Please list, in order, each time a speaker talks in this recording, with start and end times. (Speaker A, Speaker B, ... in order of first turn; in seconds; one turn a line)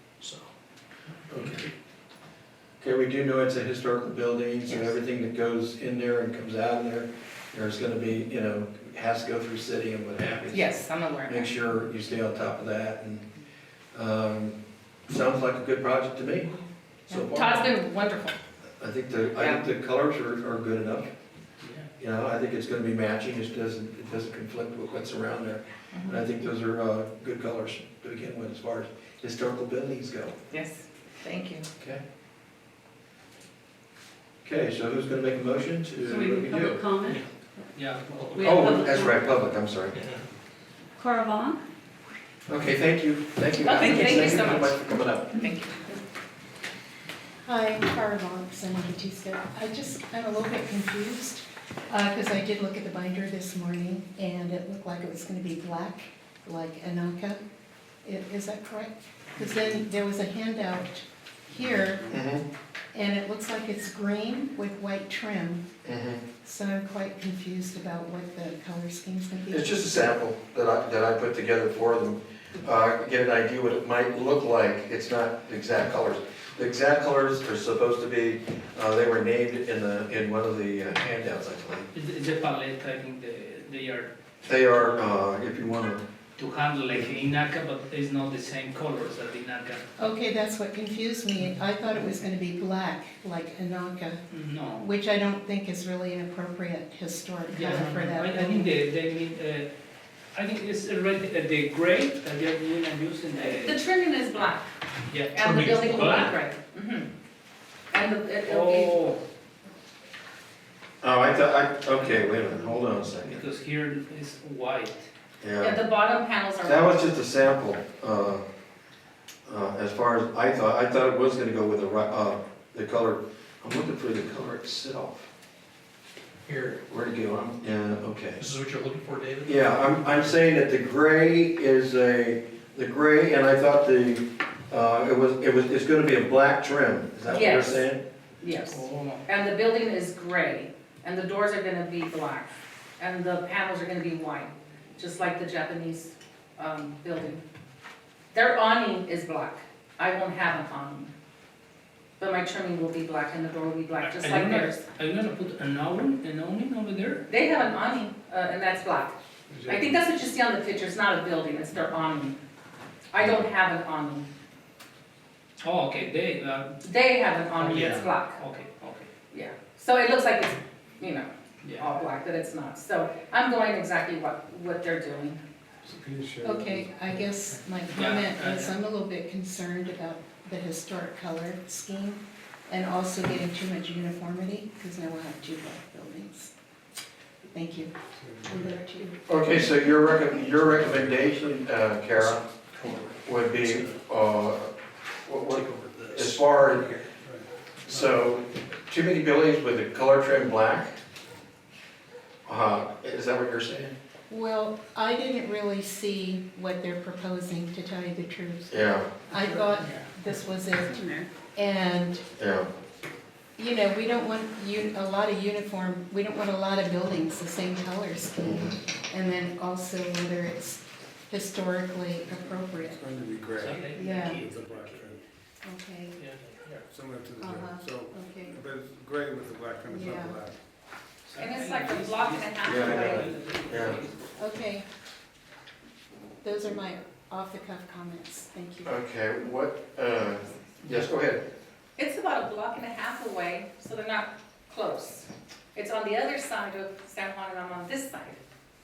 Speaker A: 0.2-0.5
Speaker B: 1.3-1.6
Speaker B: 2.8-13.2
Speaker C: 10.5-11.5
Speaker B: 13.9-14.6
Speaker B: 15.1-17.7
Speaker C: 17.1-18.3
Speaker B: 18.8-21.1
Speaker C: 19.4-19.7
Speaker D: 21.6-21.9
Speaker B: 22.0-30.4
Speaker C: 25.9-26.2
Speaker C: 30.5-31.7
Speaker B: 34.4-36.9
Speaker E: 36.0-37.6
Speaker A: 37.0-37.3
Speaker D: 37.8-38.5
Speaker A: 38.1-38.8
Speaker B: 38.4-39.9
Speaker E: 38.4-39.4
Speaker A: 39.9-40.3
Speaker E: 41.0-41.6
Speaker B: 42.5-45.4
Speaker C: 43.6-44.8
Speaker C: 45.3-45.9
Speaker F: 47.5-57.4
Speaker F: 58.0-62.2
Speaker B: 62.1-62.4
Speaker F: 62.9-65.7
Speaker B: 65.8-66.2
Speaker F: 66.4-70.1
Speaker B: 69.5-81.9
Speaker D: 81.9-84.1
Speaker B: 84.5-86.0
Speaker D: 86.4-89.9
Speaker F: 90.0-94.2
Speaker D: 94.3-94.9
Speaker F: 94.8-98.8
Speaker D: 97.5-99.7
Speaker D: 100.3-103.8
Speaker C: 103.4-104.7
Speaker D: 105.1-106.3
Speaker C: 105.3-107.1
Speaker C: 107.9-109.1
Speaker D: 108.5-109.2
Speaker B: 111.0-113.4
Speaker D: 112.0-112.4
Speaker D: 113.2-115.1
Speaker B: 115.4-115.8
Speaker C: 115.6-117.0
Speaker B: 116.6-118.4
Speaker B: 119.5-125.3
Speaker A: 126.5-126.8
Speaker B: 126.8-128.4
Speaker A: 128.4-130.3
Speaker B: 129.5-138.0
Speaker C: 137.3-137.9
Speaker C: 138.4-147.4
Speaker D: 138.7-139.2
Speaker C: 148.3-151.1
Speaker C: 152.2-154.8
Speaker D: 154.0-157.3
Speaker C: 157.3-159.1
Speaker G: 159.5-160.0
Speaker C: 159.7-162.4
Speaker C: 163.1-164.3
Speaker D: 165.6-166.8
Speaker C: 166.8-168.4
Speaker D: 167.6-169.1
Speaker C: 169.3-175.4
Speaker D: 171.6-171.9
Speaker G: 175.8-177.4
Speaker F: 176.4-186.5
Speaker D: 177.9-178.7
Speaker F: 187.4-187.9
Speaker G: 188.2-188.8
Speaker F: 188.4-189.7
Speaker B: 189.3-192.4
Speaker G: 190.6-191.2
Speaker A: 192.2-194.0
Speaker B: 193.2-194.7
Speaker B: 195.3-196.9
Speaker A: 195.5-196.9
Speaker G: 196.7-198.2
Speaker B: 197.8-200.9
Speaker B: 202.5-203.9
Speaker F: 204.3-212.2
Speaker B: 208.7-209.1
Speaker D: 209.8-210.1
Speaker E: 210.8-211.3
Speaker B: 212.4-212.7
Speaker F: 213.6-223.0
Speaker B: 218.4-218.8
Speaker G: 222.2-225.2
Speaker D: 223.6-225.1
Speaker F: 223.9-224.5
Speaker F: 225.6-226.2
Speaker A: 226.2-226.8
Speaker G: 226.9-230.6
Speaker F: 227.4-228.6
Speaker F: 229.9-230.4
Speaker D: 231.2-234.2
Speaker C: 231.4-233.3
Speaker B: 232.7-234.0
Speaker F: 234.4-234.8
Speaker F: 236.4-238.9
Speaker B: 238.8-241.4
Speaker D: 240.8-241.1
Speaker C: 242.0-248.4